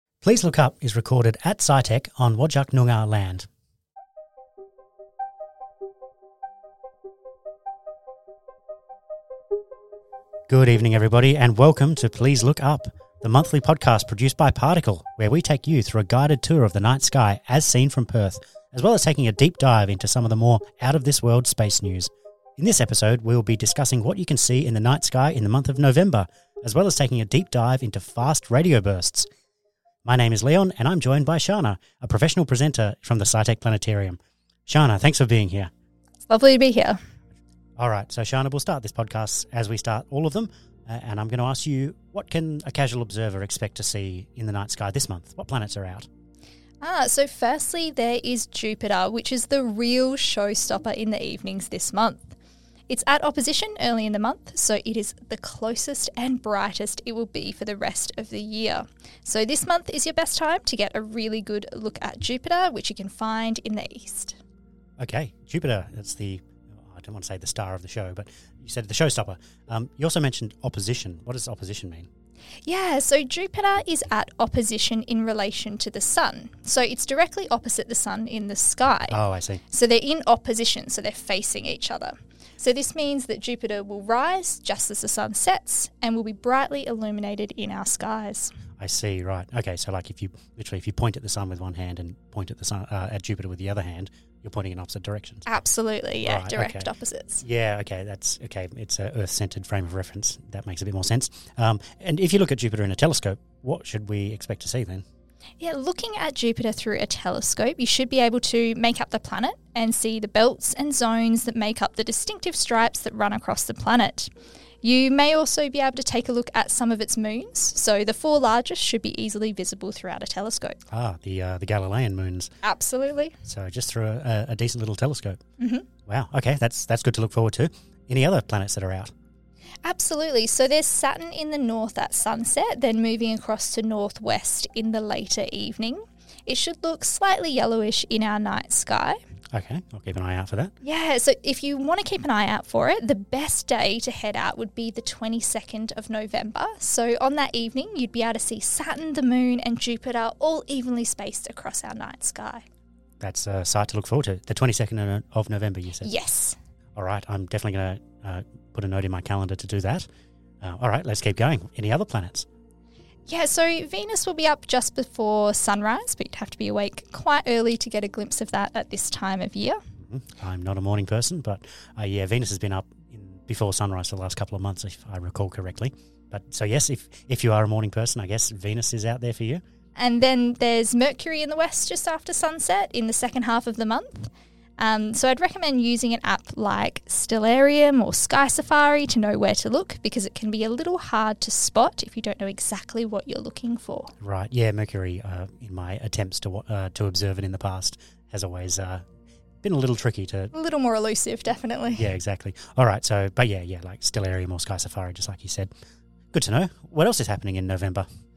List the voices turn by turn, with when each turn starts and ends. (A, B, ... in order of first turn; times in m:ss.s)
0:00.2-0:03.5 A
0:10.5-0:29.2 A
0:30.0-0:35.7 A
0:36.3-0:37.0 B
0:37.8-0:46.1 A
0:46.8-0:52.4 B
0:52.9-1:04.4 B
1:05.0-1:12.1 A
1:12.6-1:19.2 B
1:19.1-1:19.6 A
1:19.7-1:28.5 B
1:28.8-1:35.4 A
1:35.4-1:37.4 B
1:36.2-1:36.9 A
1:37.4-1:45.0 A
1:45.6-1:54.3 B
1:54.8-2:00.8 B
2:00.9-2:02.5 A
2:02.6-2:03.4 B
2:03.4-2:05.4 A
2:05.6-2:05.9 B
2:06.0-2:09.1 A
2:09.8-2:19.2 B
2:19.5-2:20.7 A
2:20.8-2:32.6 B
2:33.2-2:36.1 A
2:36.0-2:36.6 B
2:36.9-2:40.0 A
2:40.6-2:42.4 A
2:43.3-2:49.8 B
2:50.0-2:59.6 A
3:00.0-3:14.1 B
3:14.2-3:19.0 A
3:19.6-3:20.5 A
3:20.5-3:22.1 B
3:21.9-3:25.7 A
3:26.3-3:28.0 A